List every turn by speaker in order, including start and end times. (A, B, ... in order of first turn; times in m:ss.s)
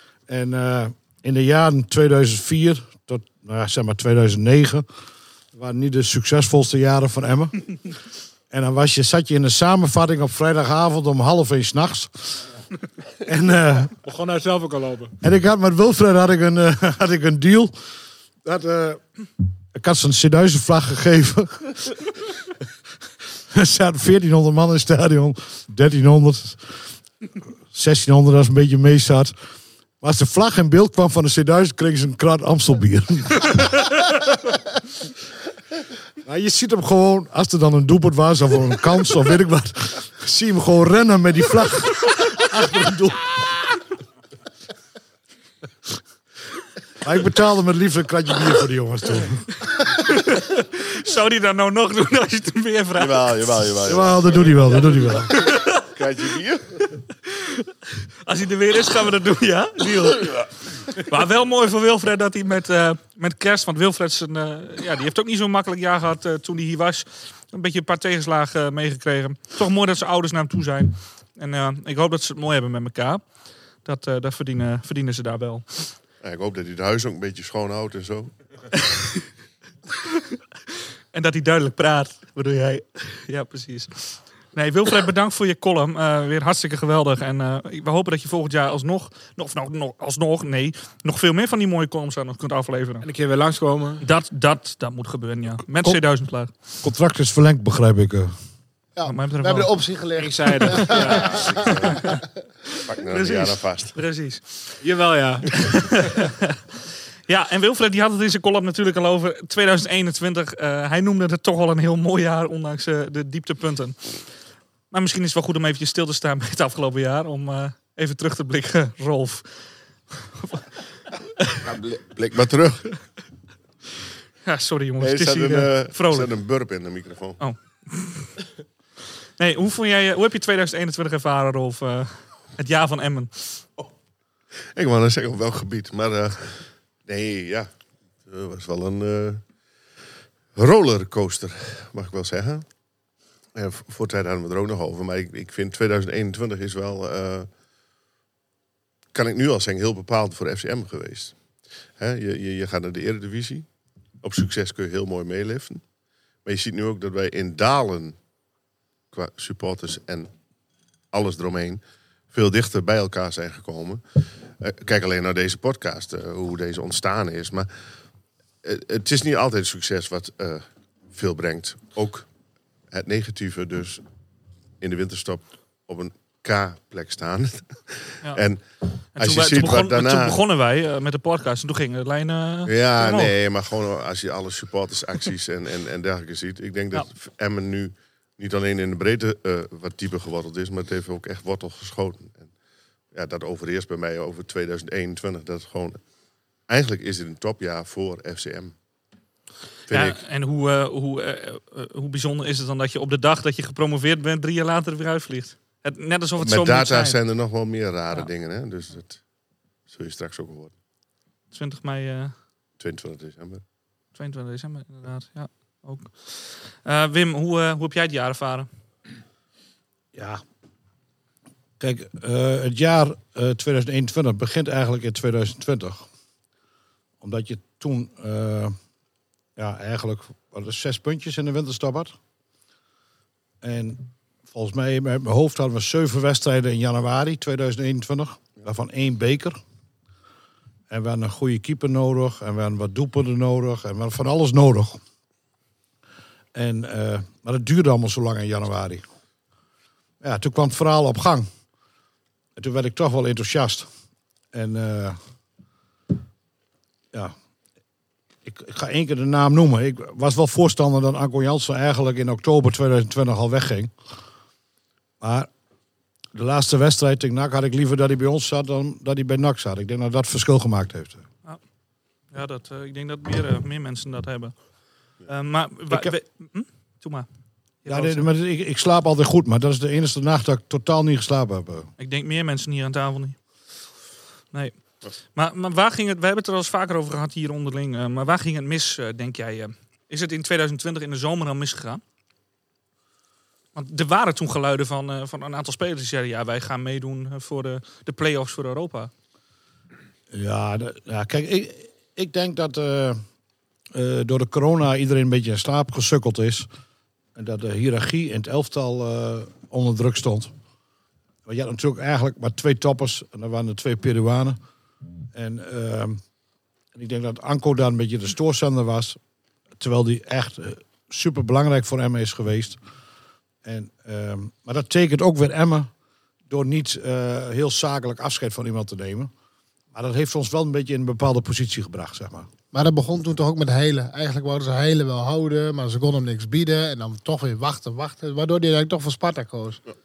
0:00.3-0:04.8 A
0:05.5-0:07.7 A
0:08.5-0:12.4 A
0:13.2-0:13.9 A
0:14.0-0:15.1 B
0:15.2-0:17.7 A
0:18.4-0:19.0 A
0:19.7-0:22.0 A
0:23.5-0:26.8 A
0:27.7-0:29.3 A
0:30.0-0:33.9 A
0:36.2-0:43.4 A
0:47.0-0:49.5 A
0:50.0-0:53.7 C
0:53.0-0:56.6 D
0:53.9-0:55.4 A
0:55.3-0:55.8 C
0:57.3-0:57.6 C
0:58.2-1:13.2 C
1:13.8-1:15.9 C
1:16.2-1:18.3 D
1:18.9-1:19.2 C
1:21.1-1:33.0 C
1:33.0-1:34.0 B
1:34.0-1:36.5 C
1:36.8-1:38.3 A
1:39.0-1:42.2 E
1:39.0-1:39.7 C
1:40.2-1:41.4 B
1:41.3-1:42.0 D
1:42.9-1:43.9 D
1:43.0-1:44.8 C
1:44.8-1:45.5 B
1:45.5-1:46.6 C
1:47.3-1:54.3 C
1:54.9-2:00.7 C
2:01.6-2:02.9 D
2:04.4-2:06.3 C
2:05.0-2:07.4 D
2:07.4-2:08.3 C
2:09.4-2:13.6 C
2:14.7-2:17.7 D
2:18.2-2:19.4 D
2:20.5-2:22.6 D
2:23.5-2:27.5 D
2:29.1-2:31.3 D
2:32.0-2:33.7 D
2:34.2-2:35.8 D
2:36.4-2:38.2 D
2:39.1-2:40.3 D
2:41.1-2:47.7 D
2:48.6-2:52.2 D
2:52.9-2:54.0 D
2:54.8-2:58.6 D
2:59.1-3:03.3 C
2:59.2-3:00.4 D
3:02.6-3:12.5 D
3:13.1-3:16.0 D
3:16.7-3:18.7 D
3:19.9-3:20.2 D
3:19.9-3:27.2 C
3:26.4-3:29.2 D
3:29.9-3:30.7 D
3:31.5-3:32.3 C
3:32.8-3:33.6 D
3:34.2-3:38.7 C
3:40.1-3:40.4 A
3:41.8-3:46.0 A
3:47.2-3:48.7 A
3:49.6-3:52.1 A
3:53.6-3:59.6 A
4:00.9-4:05.0 A
4:06.5-4:09.0 A
4:10.2-4:11.5 A
4:12.6-4:13.9 A
4:14.5-4:15.2 A
4:18.4-4:23.9 A
4:25.2-4:25.5 A
4:26.3-4:31.2 A
4:32.3-4:34.5 C
4:35.2-4:37.3 C
4:37.8-4:38.2 C
4:37.8-4:41.9 A
4:42.0-4:43.4 C
4:45.3-4:52.0 C
4:53.7-4:59.1 C
5:00.3-5:03.2 A
5:03.9-5:06.7 A
5:07.4-5:10.5 A
5:11.4-5:14.6 A
5:15.3-5:16.2 A
5:16.9-5:19.2 A
5:19.8-5:22.8 A
5:23.6-5:25.9 A
5:26.5-5:29.3 A
5:29.9-5:32.5 A
5:32.7-5:39.8 E